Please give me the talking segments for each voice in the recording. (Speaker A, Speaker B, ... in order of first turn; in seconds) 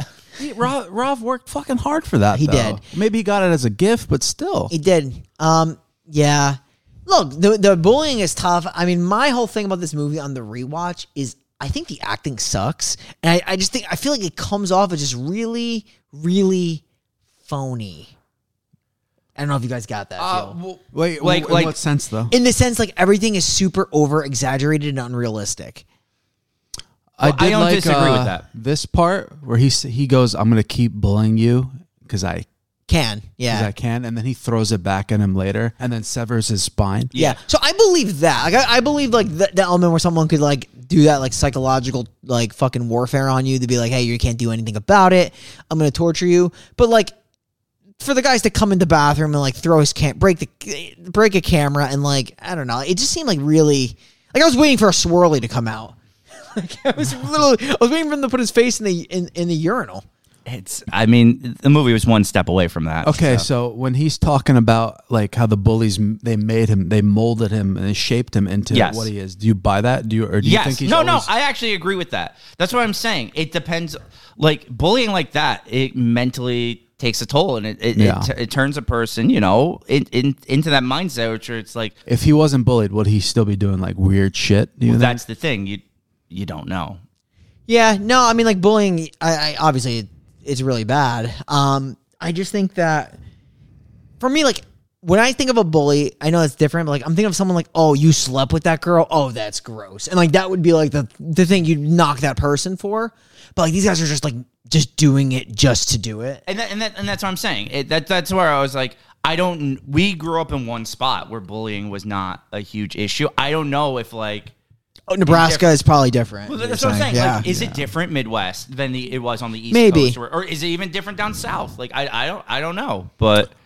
Speaker A: 0.4-4.7, 20.2-22.3, 27.2-32.5, 33.5-37.1, 63.0-71.3, 78.0-78.3, 82.1-85.2, 117.2-117.9
Speaker B: 2.3-2.8, 4.7-16.8, 17.4-18.1, 19.4-20.6, 22.3-25.8, 32.9-33.7, 37.2-47.1, 48.0-60.0, 87.7-93.2, 94.2-106.4, 115.1-117.5, 119.7-120.2
Speaker C: 21.2-21.7, 27.2-28.4, 60.5-63.5, 68.7-69.1, 70.4-82.0, 84.9-87.0, 106.5-114.5, 115.3-115.7, 116.5-123.5